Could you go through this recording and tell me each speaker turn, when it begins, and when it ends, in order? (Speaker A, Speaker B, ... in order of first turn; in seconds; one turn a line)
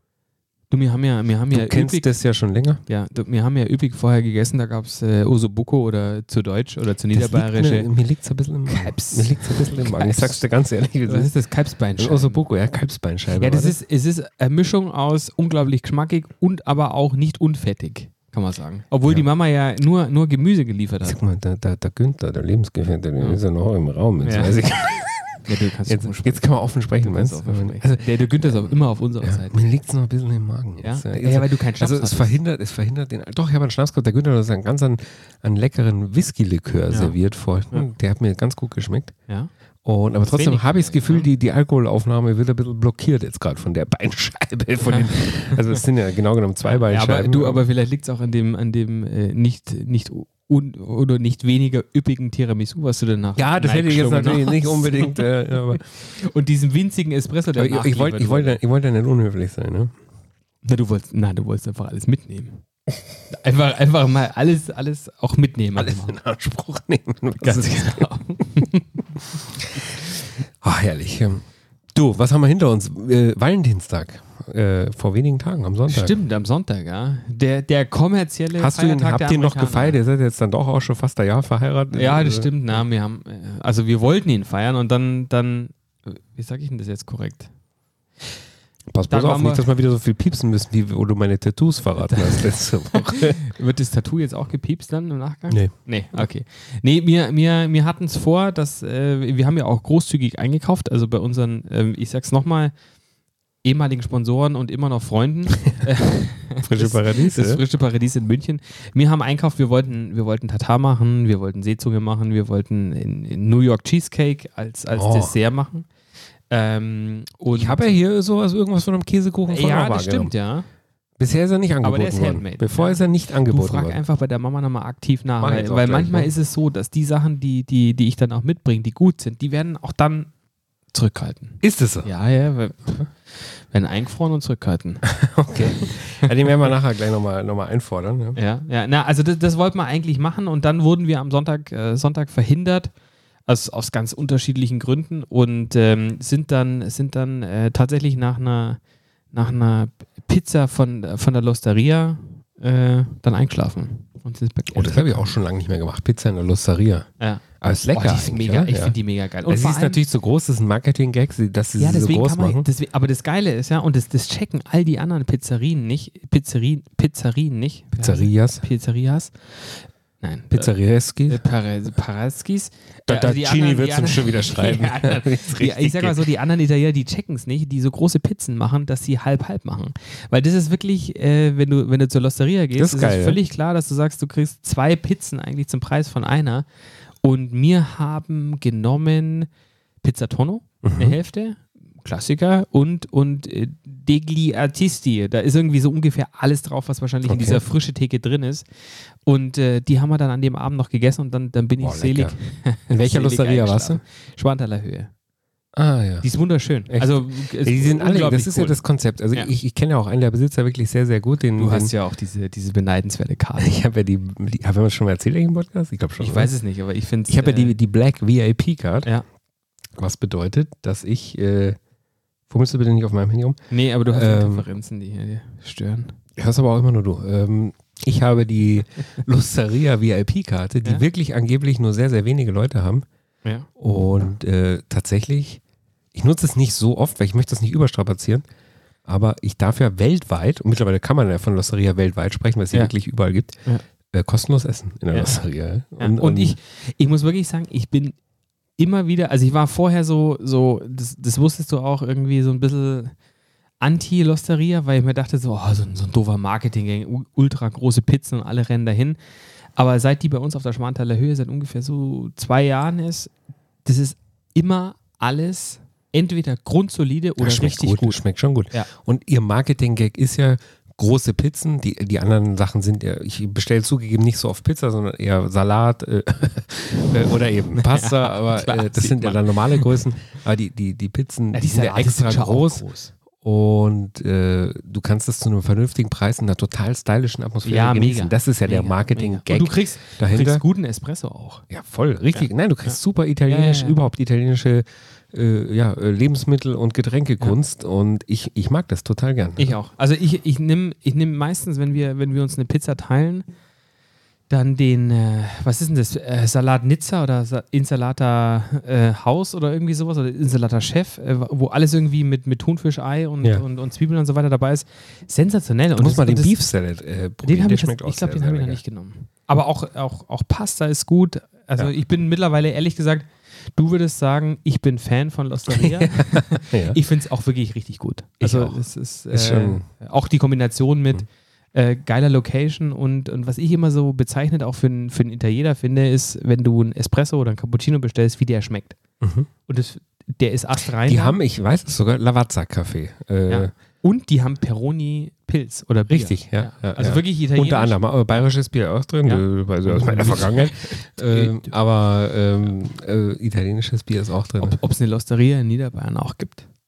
Speaker A: 0.7-2.1
Speaker B: 1.5-2.8
Speaker A: 2.9-7.9
Speaker B: 7.1-11.3
Speaker A: 8.7-10.4
Speaker A: 11.1-12.4
Speaker B: 12.0-13.8
Speaker A: 13.3-21.2
Speaker B: 21.1-39.1
Speaker A: 24.2-24.6
Speaker A: 25.4-29.7
Speaker A: 30.8-32.3
Speaker A: 36.9-37.2
Speaker B: 39.9-47.6
Speaker A: 40.3-41.3
Speaker A: 44.9-45.8
Speaker A: 46.7-58.6
Speaker B: 53.4-55.8
Speaker B: 57.5-59.9
Speaker A: 60.6-62.6
Speaker A: 63.3-66.2
Speaker B: 65.8-68.1
Speaker A: 67.4-69.0
Speaker B: 69.4-70.1
Speaker B: 70.6-71.4
Speaker B: 72.0-76.2
Speaker A: 75.9-80.0
Speaker B: 78.6-82.8
Speaker A: 81.9-87.5
Speaker B: 88.9-93.4
Speaker A: 89.1-89.7
Speaker A: 92.1-102.8
Speaker B: 95.5-96.2
Speaker A: 103.6-115.9
Speaker B: 106.6-107.6
Speaker B: 114.9-115.3
Speaker A: 116.5-118.0
Speaker B: 117.5-120.3
Speaker A: 119.5-120.7
Speaker B: 121.2-124.0
Speaker A: 121.8-130.3
Speaker B: 125.4-126.3
Speaker A: 130.9-135.1
Speaker B: 131.6-132.1
Speaker B: 135.1-138.4
Speaker A: 138.3-142.9
Speaker A: 143.5-148.8
Speaker A: 149.3-155.3
Speaker B: 154.7-157.1
Speaker A: 157.2-160.0
Speaker B: 157.6-162.7
Speaker A: 161.8-170.7
Speaker B: 168.0-168.6
Speaker B: 170.5-171.4
Speaker A: 171.3-186.7
Speaker B: 173.1-176.2
Speaker B: 182.8-183.4
Speaker A: 187.2-189.5
Speaker A: 190.0-198.7
Speaker B: 190.8-191.2
Speaker B: 197.2-197.6
Speaker A: 199.2-205.1
Speaker B: 201.8-202.3
Speaker B: 202.9-204.0
Speaker B: 205.7-206.3
Speaker A: 206.2-208.8
Speaker B: 206.9-211.9
Speaker A: 211.6-213.8
Speaker B: 213.6-216.5
Speaker A: 216.2-217.8
Speaker B: 217.3-219.1
Speaker B: 220.0-221.8
Speaker B: 222.5-224.7
Speaker A: 223.7-226.2
Speaker B: 226.4-233.1
Speaker B: 233.8-235.6
Speaker B: 236.1-238.4
Speaker B: 239.1-246.6
Speaker A: 245.1-245.4
Speaker A: 246.0-248.2
Speaker A: 248.8-253.2
Speaker A: 253.8-259.2
Speaker A: 259.8-263.3
Speaker A: 263.9-268.9
Speaker B: 267.4-282.9
Speaker A: 277.8-279.9
Speaker A: 281.5-283.1
Speaker B: 283.4-290.6
Speaker A: 287.6-291.6
Speaker B: 291.7-299.8
Speaker A: 292.3-294.0
Speaker A: 299.6-303.5
Speaker A: 304.5-316.6
Speaker B: 316.0-318.8
Speaker A: 317.4-339.0
Speaker B: 325.7-327.0
Speaker B: 328.4-329.9
Speaker B: 339.2-339.5
Speaker A: 339.7-341.4
Speaker B: 341.1-343.7
Speaker A: 343.5-348.0
Speaker B: 346.1-354.8
Speaker A: 349.2-351.7
Speaker A: 354.6-356.7